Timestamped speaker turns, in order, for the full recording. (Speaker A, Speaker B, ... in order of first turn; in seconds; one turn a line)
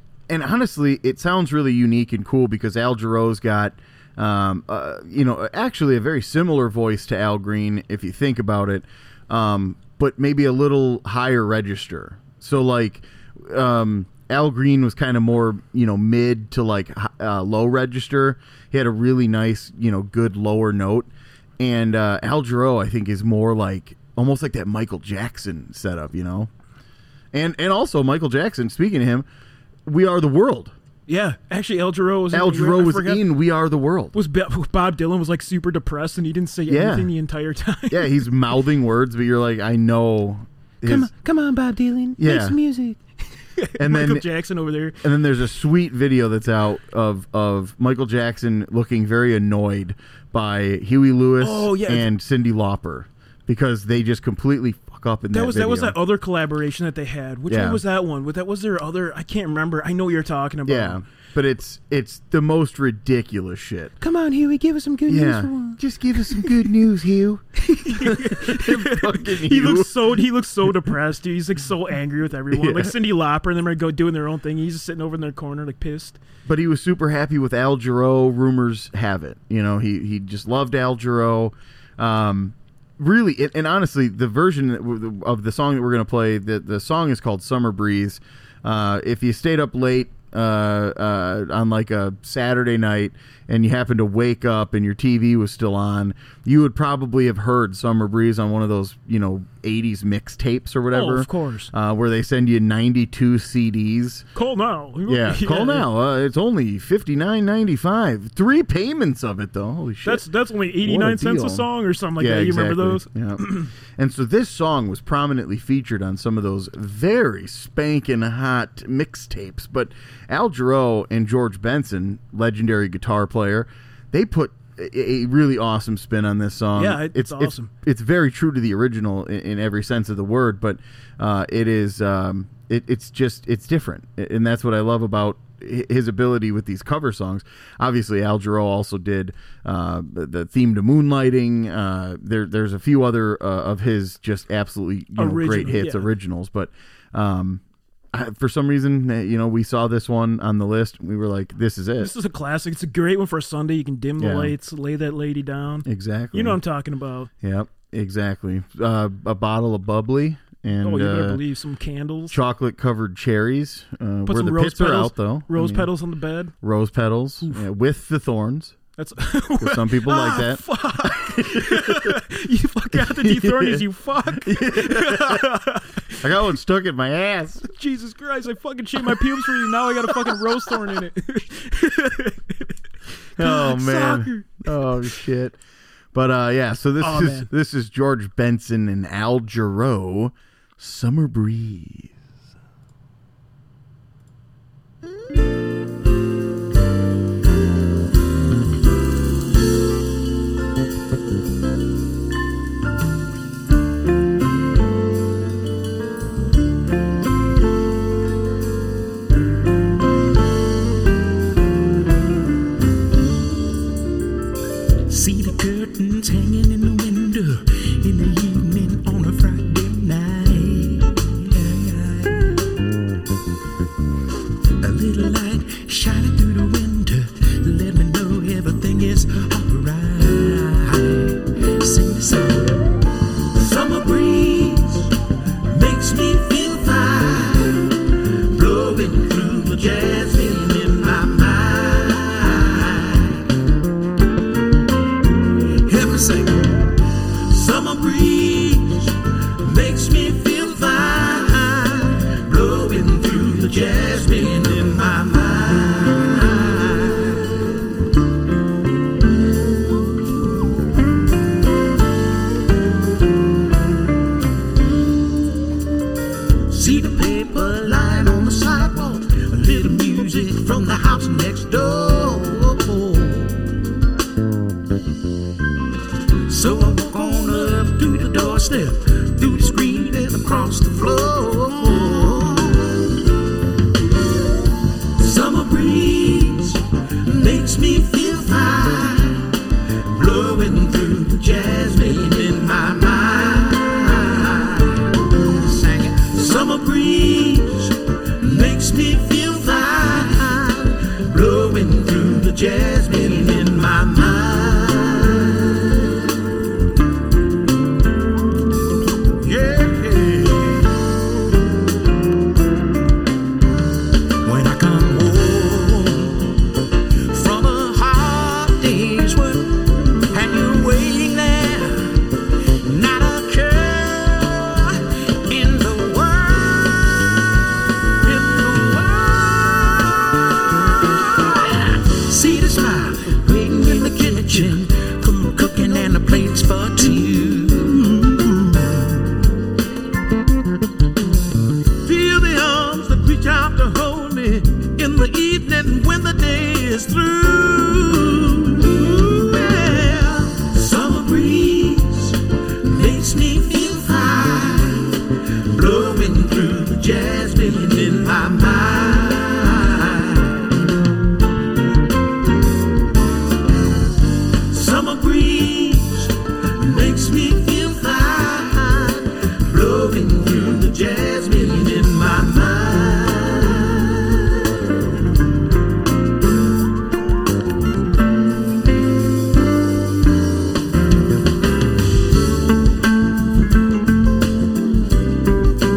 Speaker A: 0.3-26.5
Speaker A: 27.3-29.2
Speaker A: 29.9-30.7
Speaker B: 31.1-33.2
Speaker A: 32.3-34.1
Speaker B: 34.1-38.1
Speaker A: 36.7-37.1
Speaker A: 37.9-41.1
Speaker B: 40.8-45.0
Speaker A: 42.2-42.6
Speaker A: 43.8-44.3
Speaker A: 45.0-56.0
Speaker B: 51.4-52.1
Speaker B: 55.3-61.0
Speaker A: 57.5-57.8
Speaker A: 60.6-63.9
Speaker B: 64.0-66.6
Speaker A: 65.1-70.2
Speaker B: 67.6-76.2
Speaker A: 72.5-72.9
Speaker A: 76.5-104.2
Speaker B: 100.9-101.7
Speaker B: 104.3-105.9
Speaker A: 105.1-110.2
Speaker B: 110.0-113.7
Speaker A: 110.8-111.7
Speaker A: 112.2-147.6
Speaker B: 126.8-127.7
Speaker B: 145.2-146.1
Speaker A: 148.1-152.1
Speaker B: 152.0-157.3
Speaker A: 154.2-154.5
Speaker A: 155.8-156.6
Speaker A: 157.4-161.4
Speaker B: 160.8-162.4
Speaker A: 162.3-165.9
Speaker B: 164.2-166.5
Speaker A: 166.6-168.8
Speaker B: 169.0-176.2
Speaker A: 169.6-172.2
Speaker A: 172.9-175.6
Speaker A: 176.1-177.6
Speaker B: 177.6-182.8
Speaker A: 179.3-180.6
Speaker B: 183.4-184.7
Speaker A: 183.4-185.6
Speaker A: 186.1-192.1
Speaker B: 187.0-187.5
Speaker C: 215.1-222.6
Speaker C: 224.8-232.9
Speaker C: 233.5-243.5
Speaker C: 245.6-257.8
Speaker C: 266.7-273.7
Speaker C: 276.4-283.2
Speaker C: 285.1-306.3
Speaker C: 309.4-310.9
Speaker C: 314.4-327.4
Speaker C: 328.2-339.3
Speaker C: 342.0-360.6
Speaker C: 364.5-374.8